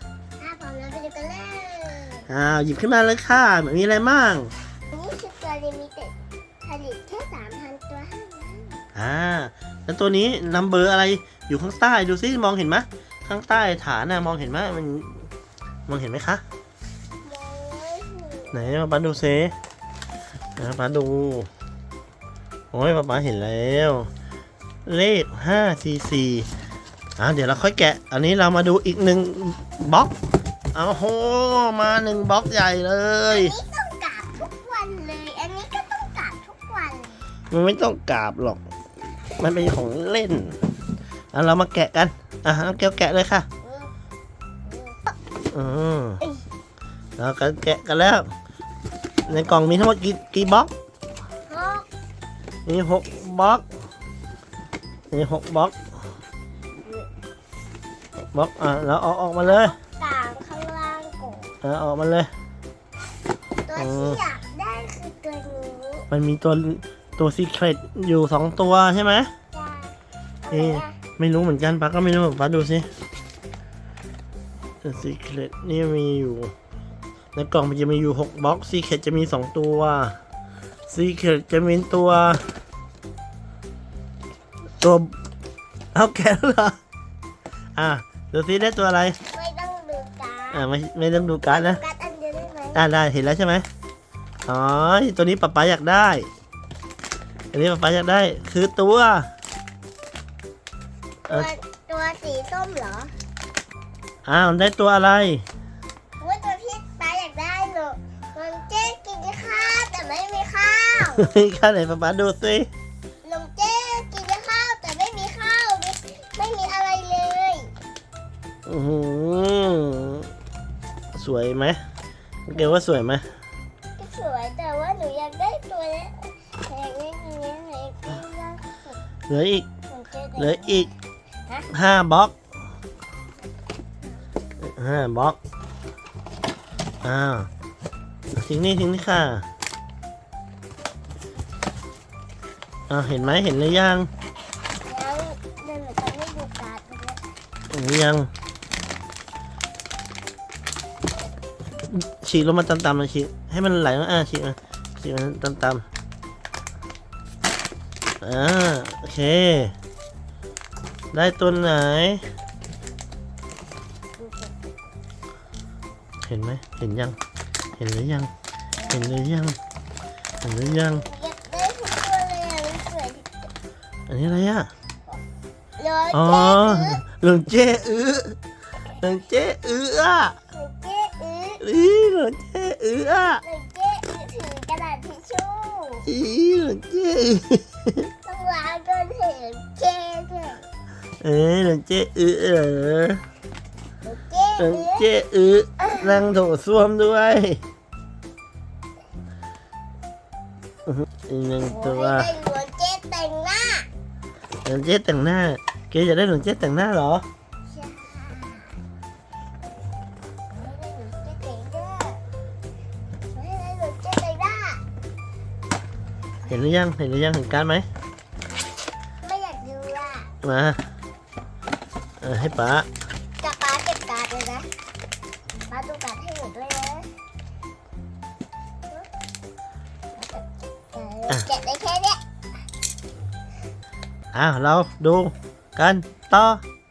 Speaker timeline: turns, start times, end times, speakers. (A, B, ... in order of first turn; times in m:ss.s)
0:00.4-0:02.3 A
0:02.3-0:04.5 B
0:04.9-0:08.8 A
0:09.0-0:15.3 B
0:15.9-0:16.4 B
0:17.2-0:18.6 A
0:18.5-0:19.6 B
0:20.6-0:21.5 B
0:22.7-0:24.1 B
0:24.9-0:26.5 B
0:27.2-0:30.1 B
0:30.7-0:33.6 B
0:33.3-0:37.2 A
0:37.5-0:38.6 B
0:39.4-0:40.6 B
0:39.4-0:39.7 A
0:41.3-0:43.5 B
0:43.6-0:43.9 A
0:44.6-0:45.2 A
0:45.5-0:46.2 B
0:47.2-0:48.3 B
0:49.3-0:50.7 B
0:51.5-0:51.9 A
0:52.7-0:53.7 B
0:55.1-0:55.8 B
0:58.3-0:59.7 B
0:59.4-1:01.6 A
1:01.6-1:02.3 B
1:03.6-1:06.1 A
1:03.8-1:04.2 B
1:06.1-1:09.3 B
1:09.5-1:11.0 A
1:10.5-1:12.9 B
1:14.8-1:16.5 B
1:17.4-1:20.2 B
1:20.9-1:22.4 B
1:24.8-1:25.1 B
1:26.0-1:26.8 B
1:27.8-1:29.2 B
1:29.3-1:30.6 A
1:30.5-1:31.8 B
1:31.5-1:32.8 A
1:32.8-1:33.7 B
1:34.5-1:36.3 B
1:37.5-1:39.3 B
1:41.3-1:43.1 A
1:44.3-1:45.4 B
1:46.2-1:51.2 A
1:51.2-1:52.7 B
1:53.2-1:57.7 A
1:58.7-2:00.3 B
2:01.2-2:01.8 B
2:02.5-2:03.3 B
2:02.5-2:02.8 A
2:04.0-2:09.0 A
2:09.3-2:09.7 B
2:09.9-2:10.9 A
2:10.4-2:10.9 B
2:11.7-2:12.4 B
2:14.0-2:14.6 A
2:14.6-2:15.4 B
2:17.0-2:17.5 B
2:18.4-2:19.4 B
2:22.9-2:24.1 B
2:24.8-2:27.2 A
2:27.7-2:28.3 B
2:31.9-2:35.8 B
2:38.2-2:39.7 B
2:41.1-2:42.2 B
2:44.2-2:44.7 A
2:46.2-2:47.2 B
2:47.8-2:48.3 B
2:48.8-2:49.2 A
2:48.9-2:49.6 B
2:50.4-2:51.0 B
2:51.1-2:53.5 A
2:54.1-2:54.7 B
2:55.8-2:57.0 A
2:56.1-2:58.4 B
2:59.0-3:00.4 B
3:00.5-3:01.6 A
3:01.6-3:03.4 B
3:03.4-3:06.1 A
3:06.1-3:08.1 B
3:08.2-3:10.6 A
3:11.2-3:13.2 B
3:14.0-3:15.1 A
3:14.6-3:17.6 B
3:15.8-3:16.1 A
3:20.9-3:22.3 B
3:21.7-3:23.9 A
3:24.6-3:27.3 B
3:27.7-3:28.8 A
3:30.5-3:32.2 A
3:33.3-3:34.8 A
3:36.5-3:37.9 B
3:39.2-3:40.3 A
3:40.4-3:40.8 B
3:42.2-3:42.9 B
3:43.4-3:44.7 A
3:45.7-3:47.1 A
3:50.2-3:52.2 A
3:54.3-3:56.6 B